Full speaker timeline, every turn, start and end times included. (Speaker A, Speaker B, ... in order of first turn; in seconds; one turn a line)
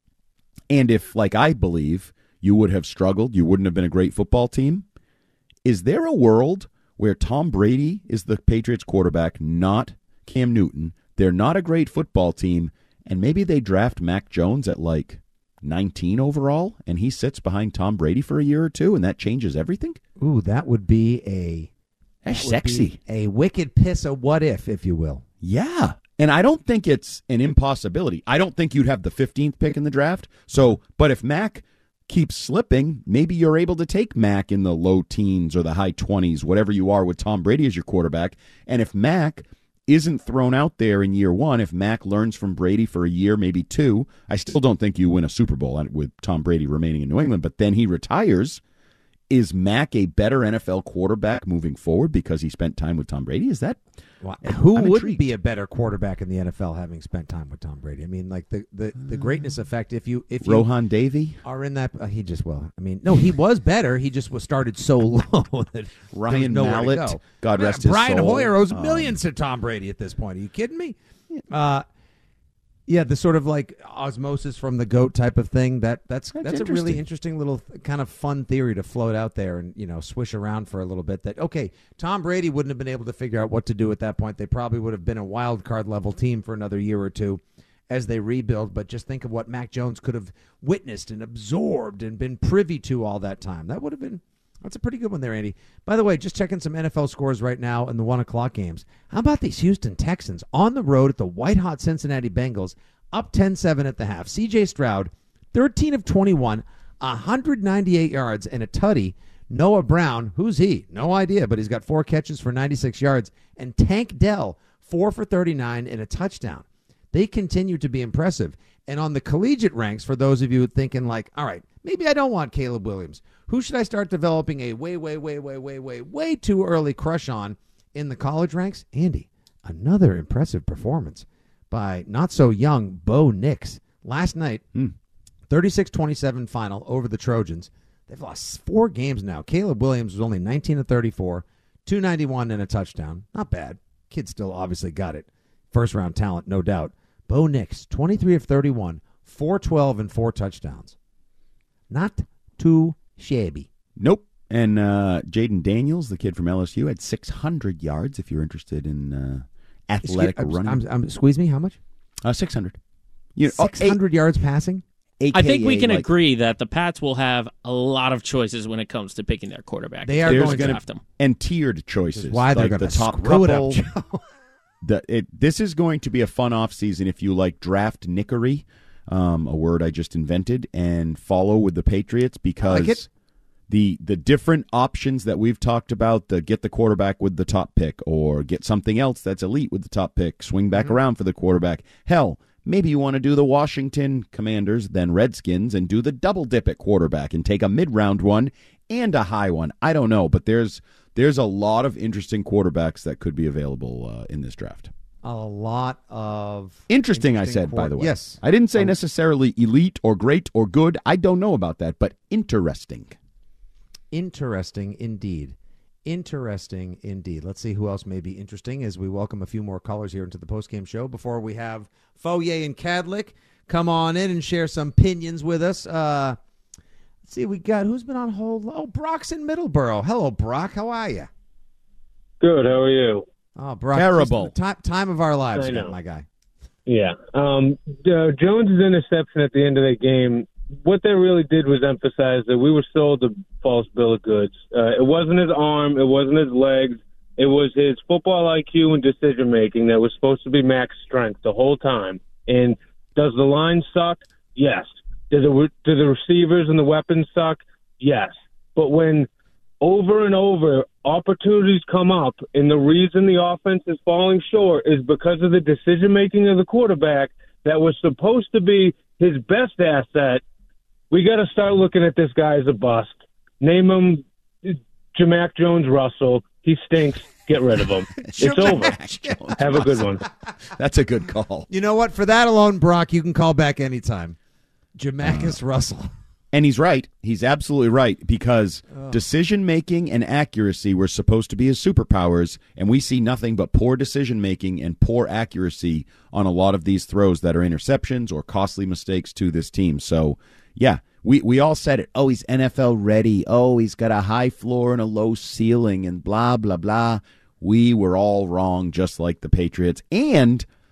Speaker A: 0.7-4.9
Speaker A: 5.7-20.0
Speaker B: 20.2-21.7
Speaker A: 22.2-23.0
Speaker B: 22.3-25.2
Speaker A: 25.4-48.6
Speaker A: 49.3-53.8
Speaker B: 54.2-60.7
Speaker A: 54.4-55.2
Speaker A: 60.4-61.4
Speaker B: 61.4-71.0
Speaker A: 66.1-69.2
Speaker B: 71.5-71.9
Speaker B: 72.9-134.7
Speaker A: 76.3-77.0
Speaker B: 135.5-150.9
Speaker B: 151.9-153.7
Speaker A: 154.0-160.8
Speaker B: 160.0-161.8
Speaker A: 162.2-162.8
Speaker A: 163.4-164.0
Speaker B: 163.5-164.8
Speaker A: 165.2-166.1
Speaker C: 165.3-171.0
Speaker B: 170.1-170.8
Speaker A: 170.3-173.8
Speaker B: 172.1-174.2
Speaker A: 174.8-183.1
Speaker B: 182.6-183.0
Speaker A: 183.7-204.9
Speaker B: 205.2-209.0
Speaker A: 206.9-213.2
Speaker B: 214.1-226.4
Speaker B: 227.3-231.3
Speaker D: 232.4-233.2
Speaker B: 233.6-236.3
Speaker A: 233.9-234.5
Speaker D: 235.6-236.0
Speaker D: 236.9-259.3
Speaker D: 259.8-270.4
Speaker D: 271.1-279.0
Speaker A: 278.2-280.2
Speaker B: 278.3-280.1
Speaker D: 279.6-280.2
Speaker A: 280.8-281.7
Speaker B: 281.7-284.4
Speaker B: 285.0-286.1
Speaker A: 285.2-285.6
Speaker A: 286.5-310.7